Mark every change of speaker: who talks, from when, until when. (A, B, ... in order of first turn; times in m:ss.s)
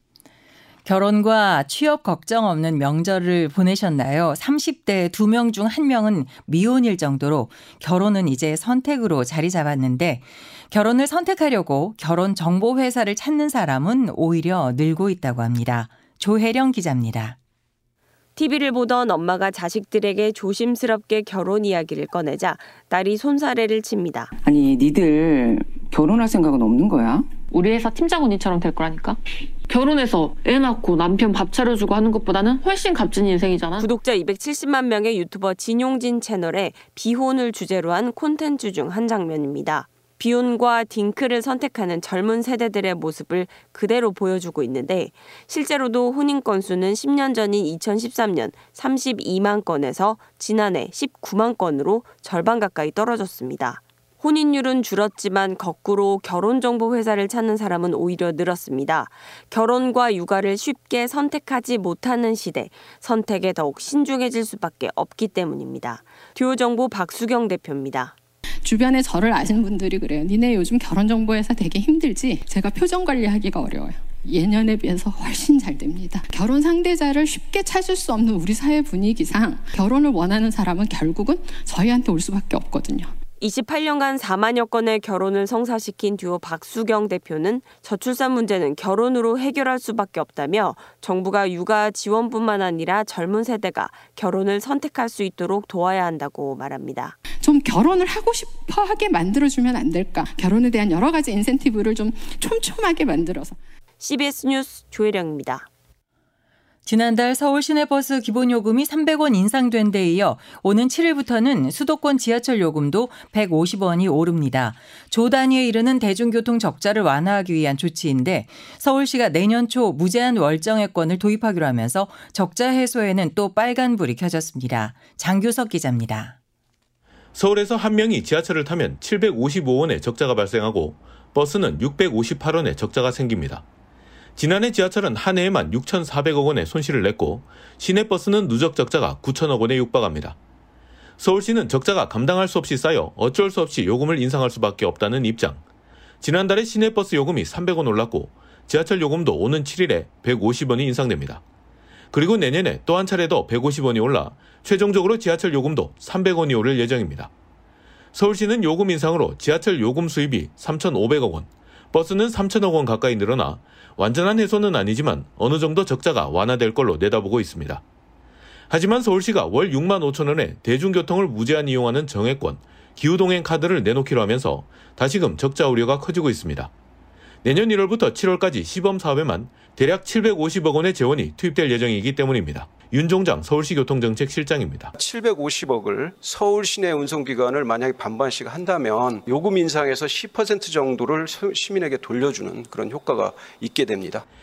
0:00.8-0:17.4 A
0:18.4-0:24.3 B
0:24.4-0:27.4 C
0:27.4-0:29.2 D
0:29.7-0:33.8 D
0:33.8-1:08.1 B
1:08.6-1:23.1 E
1:23.4-1:37.1 B
1:37.4-1:43.6 E
1:44.0-1:45.7 B
1:46.8-2:06.4 A
2:07.3-2:13.6 F
2:14.4-2:20.4 F
2:21.2-2:25.6 F
2:26.2-2:31.4 F
2:32.1-2:37.3 F
2:38.1-2:47.8 F
2:48.7-2:56.7 F
2:57.4-3:04.9 F
3:05.0-3:14.2 G